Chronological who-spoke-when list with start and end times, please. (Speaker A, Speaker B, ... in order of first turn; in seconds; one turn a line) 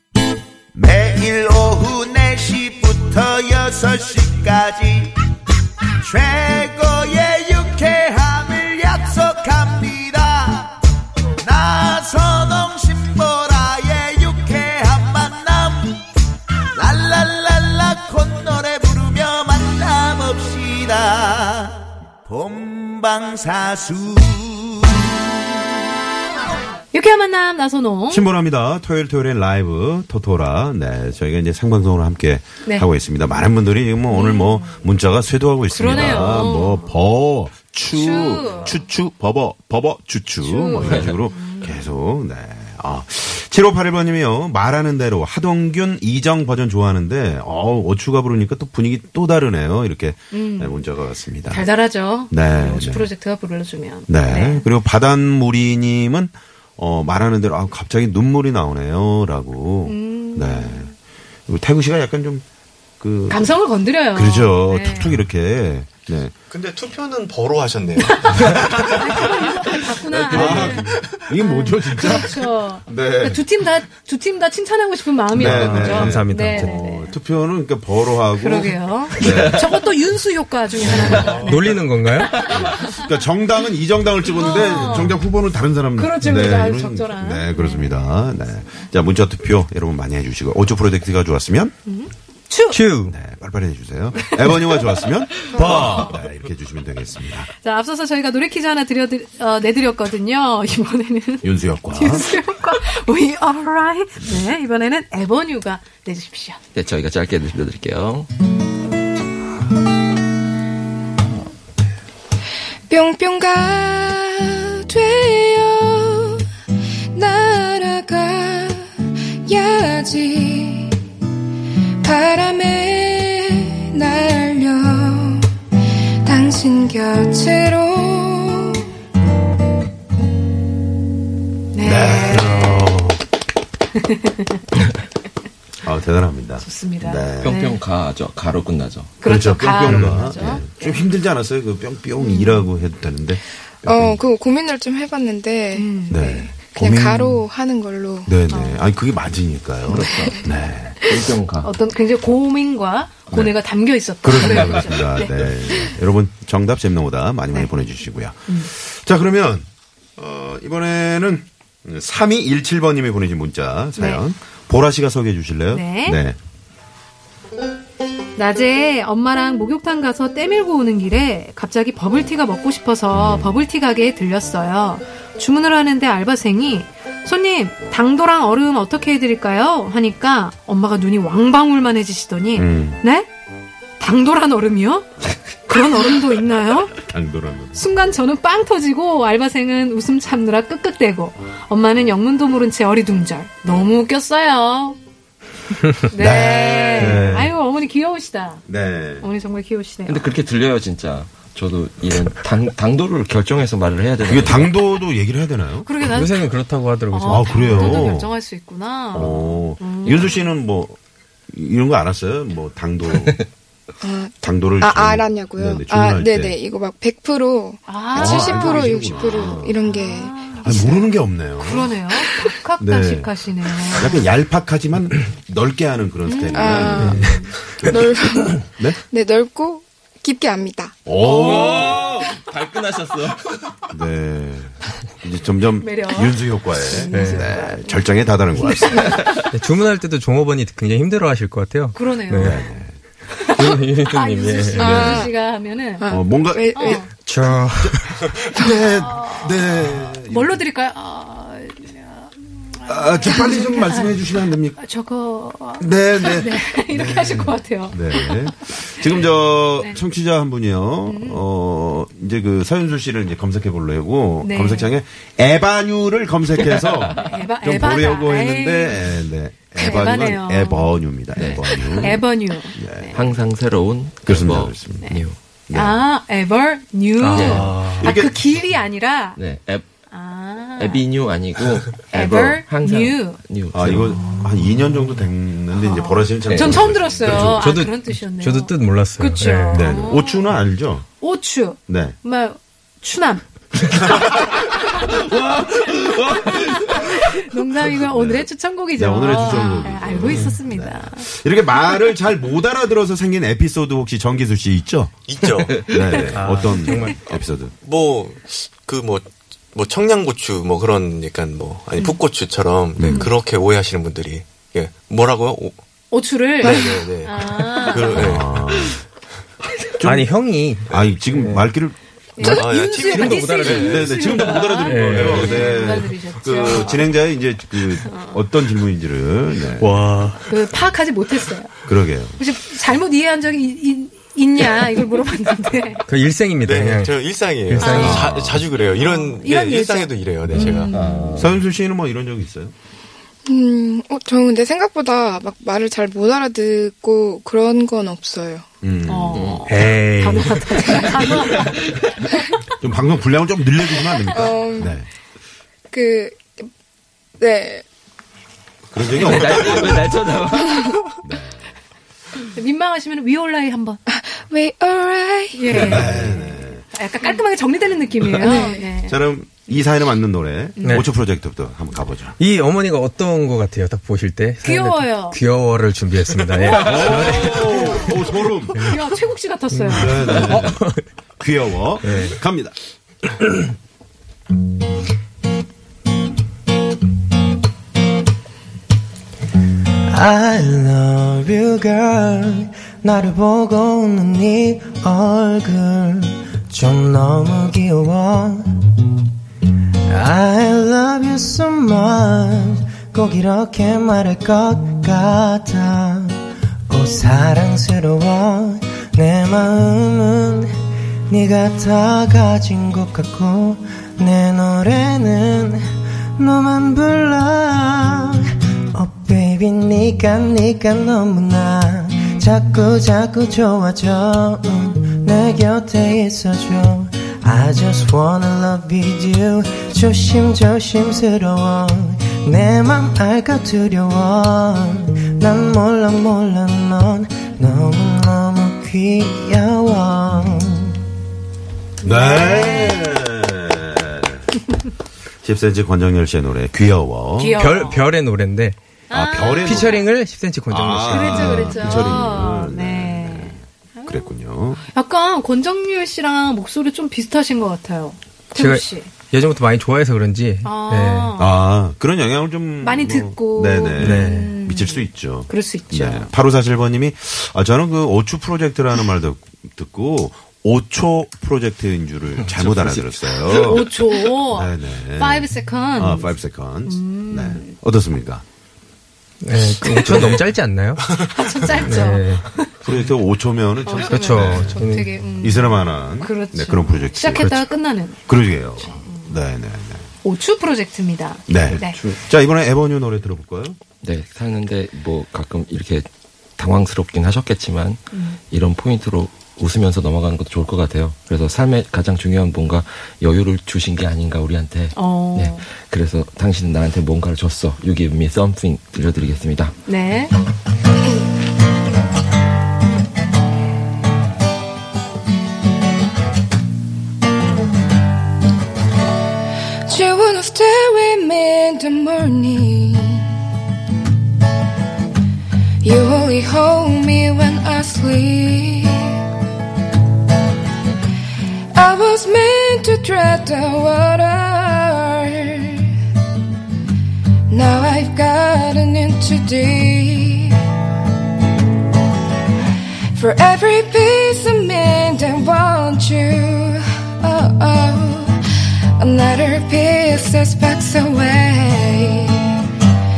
Speaker A: 0.8-5.2
Speaker A: 6.0-10.8
Speaker A: 11.4-16.0
Speaker A: 16.8-24.9
Speaker B: 26.9-28.3
Speaker C: 28.1-51.7
Speaker B: 34.1-34.8
Speaker B: 35.7-37.0
Speaker B: 37.9-38.8
Speaker B: 40.4-41.9
Speaker B: 50.3-50.8
Speaker B: 51.5-54.7
Speaker C: 52.3-53.1
Speaker C: 54.1-60.9
Speaker B: 59.9-60.9
Speaker C: 61.5-62.4
Speaker C: 63.0-63.6
Speaker B: 63.3-65.2
Speaker C: 64.1-66.3
Speaker D: 66.5-71.2
Speaker B: 68.0-77.1
Speaker C: 70.3-73.4
Speaker E: 75.3-76.8
Speaker C: 75.4-79.6
Speaker B: 78.3-83.0
Speaker F: 79.2-79.7
Speaker F: 80.9-81.2
Speaker C: 81.2-81.7
Speaker E: 81.3-82.4
Speaker C: 82.4-91.8
Speaker B: 84.3-85.2
Speaker B: 86.0-88.1
Speaker B: 91.9-92.8
Speaker E: 92.7-93.2
Speaker C: 93.1-97.5
Speaker G: 95.5-96.0
Speaker B: 95.8-96.1
Speaker B: 97.5-106.6
Speaker C: 101.4-102.3
Speaker F: 106.7-108.3
Speaker G: 112.9-116.4
Speaker G: 117.1-121.0
Speaker G: 122.0-125.5
Speaker G: 126.2-128.8
Speaker B: 131.7-133.1
Speaker C: 131.8-132.4
Speaker E: 132.3-133.2
Speaker B: 134.0-134.5
Speaker C: 135.8-137.6
Speaker B: 136.6-137.8
Speaker F: 137.4-139.1
Speaker B: 139.2-141.0
Speaker C: 139.2-144.2
Speaker B: 142.2-142.7
Speaker G: 143.8-148.3
Speaker B: 145.7-146.2
Speaker C: 146.1-147.5
Speaker C: 148.3-151.1
Speaker B: 148.5-148.8
Speaker F: 149.9-150.4
Speaker F: 151.1-151.7
Speaker B: 151.6-155.9
Speaker C: 153.3-153.6
Speaker C: 154.2-166.4
Speaker B: 164.0-164.2
Speaker B: 165.7-166.2
Speaker B: 168.4-183.3
Speaker C: 173.1-173.7
Speaker C: 182.5-183.0
Speaker B: 184.0-185.1
Speaker B: 185.7-187.0
Speaker C: 187.1-187.8
Speaker B: 187.7-195.0
Speaker B: 196.1-198.7
Speaker C: 196.2-197.5
Speaker C: 198.7-199.3
Speaker B: 199.2-200.2
Speaker F: 200.1-204.9
Speaker C: 204.2-206.1
Speaker B: 205.8-206.6
Speaker E: 206.1-208.1
Speaker B: 207.1-210.5
Speaker C: 207.3-208.3
Speaker C: 209.1-211.0
Speaker C: 211.5-213.4
Speaker G: 214.0-221.2
Speaker C: 214.4-216.6
Speaker B: 217.9-221.0
Speaker C: 218.1-219.8
Speaker C: 220.6-222.0
Speaker B: 221.6-224.3
Speaker C: 222.8-223.3
Speaker C: 224.0-227.2
Speaker B: 226.2-227.5
Speaker G: 226.5-231.0
Speaker E: 226.8-227.4
Speaker C: 231.1-232.0
Speaker F: 231.2-233.8
Speaker C: 233.9-239.2
Speaker B: 235.8-239.2
Speaker E: 237.1-237.5
Speaker E: 239.4-242.7
Speaker B: 241.9-242.8
Speaker C: 242.4-242.9
Speaker B: 243.4-246.1
Speaker E: 243.6-245.3
Speaker G: 244.8-245.3
Speaker G: 246.0-247.1
Speaker C: 246.1-246.8
Speaker B: 246.7-247.1
Speaker E: 247.2-248.2
Speaker C: 247.8-250.6
Speaker G: 248.5-248.8
Speaker B: 248.6-259.2
Speaker C: 252.9-254.8
Speaker G: 253.5-253.9
Speaker C: 255.8-273.4
Speaker B: 259.8-260.0
Speaker B: 261.1-261.4
Speaker B: 264.4-264.9
Speaker B: 267.2-269.1
Speaker B: 269.7-270.9
Speaker F: 271.4-272.2
Speaker B: 271.6-273.2
Speaker F: 273.1-275.4
Speaker C: 274.2-276.0
Speaker B: 275.0-279.4
Speaker E: 277.2-278.2
Speaker F: 277.3-277.7
Speaker F: 279.4-279.9
Speaker B: 280.1-281.1
Speaker F: 280.8-284.2
Speaker B: 282.1-283.4
Speaker C: 283.7-287.7
Speaker B: 284.2-284.5
Speaker B: 285.7-290.5
Speaker F: 286.4-286.8
Speaker E: 287.4-290.0
Speaker C: 289.7-291.1
Speaker B: 291.2-293.4
Speaker C: 291.9-292.2
Speaker B: 294.0-295.2
Speaker C: 294.2-297.0
Speaker B: 296.4-301.3
Speaker C: 297.9-305.1
Speaker D: 305.3-306.4
Speaker F: 305.7-306.2
Speaker B: 305.9-306.4
Speaker C: 305.9-307.7
Speaker E: 306.3-307.2
Speaker B: 306.9-307.1
Speaker D: 307.8-315.8
Speaker C: 312.9-313.3
Speaker B: 313.1-313.3
Speaker B: 316.1-318.4
Speaker D: 316.6-319.0
Speaker C: 318.2-319.0
Speaker C: 320.0-320.3
Speaker E: 320.0-321.7
Speaker D: 320.9-321.1
Speaker C: 320.9-322.0
Speaker B: 322.4-327.2
Speaker G: 322.4-322.7
Speaker D: 322.4-324.6
Speaker E: 323.3-323.9
Speaker C: 323.9-329.9
Speaker E: 324.9-325.5
Speaker B: 327.7-328.5
Speaker E: 329.8-330.4
Speaker B: 330.5-331.8
Speaker C: 331.9-332.4
Speaker B: 332.4-336.0
Speaker E: 336.1-338.3
Speaker D: 336.6-341.4
Speaker B: 337.8-338.2
Speaker C: 338.0-338.6
Speaker B: 338.9-341.0
Speaker F: 340.9-341.6
Speaker C: 341.4-342.7
Speaker G: 343.4-348.7
Speaker C: 348.8-349.4
Speaker B: 349.1-351.8
Speaker F: 349.3-349.6
Speaker E: 349.7-351.0
Speaker F: 351.4-351.9
Speaker C: 352.8-355.1
Speaker G: 354.4-355.0
Speaker G: 355.9-356.7
Speaker G: 357.4-357.8
Speaker C: 358.9-360.0
Speaker F: 359.2-361.1
Speaker C: 361.2-361.8
Speaker B: 362.4-364.0
Speaker G: 364.1-366.2
Speaker B: 365.6-369.2
Speaker C: 365.7-366.9
Speaker G: 368.4-368.9
Speaker C: 369.0-372.4
Speaker B: 370.8-371.1
Speaker E: 370.8-371.1
Speaker E: 372.4-378.2
Speaker B: 374.6-375.4
Speaker C: 376.8-378.8
Speaker B: 377.4-378.1
Speaker E: 378.8-379.1
Speaker B: 378.8-380.5
Speaker E: 379.8-381.0
Speaker C: 379.9-380.8
Speaker C: 381.4-382.8
Speaker E: 382.0-382.4
Speaker H: 390.1-398.7
Speaker H: 400.1-410.7
Speaker H: 411.3-415.8
Speaker H: 416.4-441.0
Speaker B: 442.0-443.2
Speaker C: 442.0-444.4
Speaker C: 445.4-447.6
Speaker B: 447.4-448.0
Speaker E: 447.6-448.8
Speaker B: 449.1-450.0
Speaker C: 449.1-449.9
Speaker E: 449.5-452.2
Speaker C: 450.7-454.8
Speaker B: 451.1-454.3
Speaker B: 454.8-459.1
Speaker E: 458.6-461.3
Speaker B: 460.6-461.6
Speaker C: 461.4-478.4
Speaker B: 462.8-466.3
Speaker E: 464.0-464.5
Speaker F: 472.4-473.1
Speaker B: 473.4-477.8
Speaker E: 479.4-481.1
Speaker B: 479.9-480.3
Speaker B: 481.3-482.7
Speaker E: 481.9-483.0
Speaker C: 482.8-484.8
Speaker B: 483.9-489.4
Speaker E: 484.0-485.1
Speaker C: 485.4-487.5
Speaker E: 487.4-487.7
Speaker C: 488.3-490.1
Speaker B: 490.2-492.0
Speaker C: 491.5-493.8
Speaker F: 494.0-509.8
Speaker B: 498.1-498.4
Speaker B: 504.9-505.7
Speaker B: 509.9-510.3
Speaker G: 519.9-523.4
Speaker G: 525.8-529.2
Speaker G: 531.7-536.0
Speaker G: 537.5-540.6
Speaker G: 543.1-552.6